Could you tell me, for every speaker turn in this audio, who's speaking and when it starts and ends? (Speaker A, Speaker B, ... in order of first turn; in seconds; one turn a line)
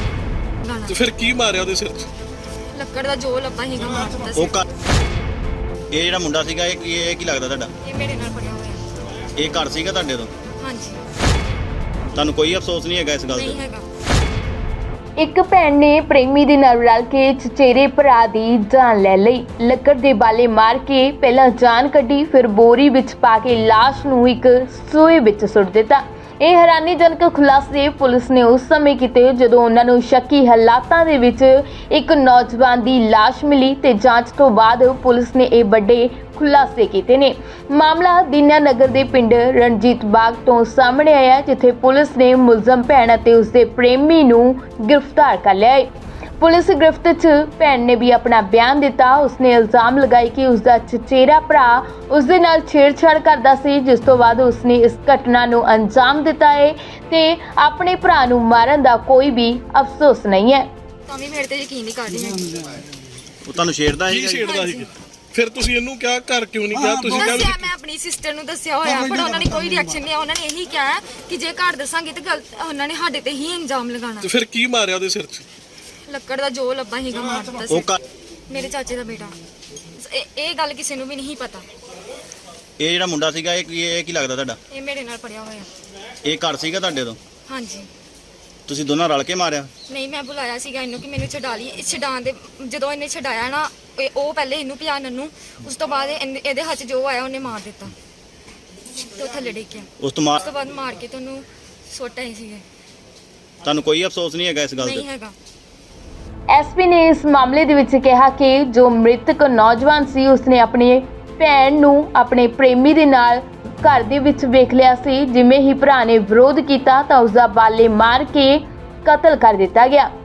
Speaker A: 0.6-0.9
Speaker B: 0.9-2.1
Speaker A: 2.7-4.6
Speaker C: 4.3-4.6
Speaker C: 5.9-7.7
Speaker A: 7.8-8.8
Speaker C: 9.3-10.3
Speaker A: 10.6-11.0
Speaker C: 12.1-13.6
Speaker A: 13.3-13.8
Speaker D: 15.2-60.7
Speaker A: 61.1-62.8
Speaker C: 63.4-64.4
Speaker B: 64.1-67.5
Speaker A: 64.4-64.9
Speaker A: 67.0-74.3
Speaker B: 74.2-75.5
Speaker A: 76.1-78.0
Speaker C: 77.7-78.0
Speaker A: 78.5-79.4
Speaker A: 80.0-81.7
Speaker C: 82.8-84.6
Speaker A: 84.7-85.7
Speaker C: 86.2-87.2
Speaker A: 87.5-87.9
Speaker C: 88.7-89.7
Speaker A: 89.9-97.9
Speaker A: 99.1-102.6
Speaker C: 100.0-100.5
Speaker C: 103.6-105.0
Speaker A: 104.8-105.3
Speaker D: 106.5-120.1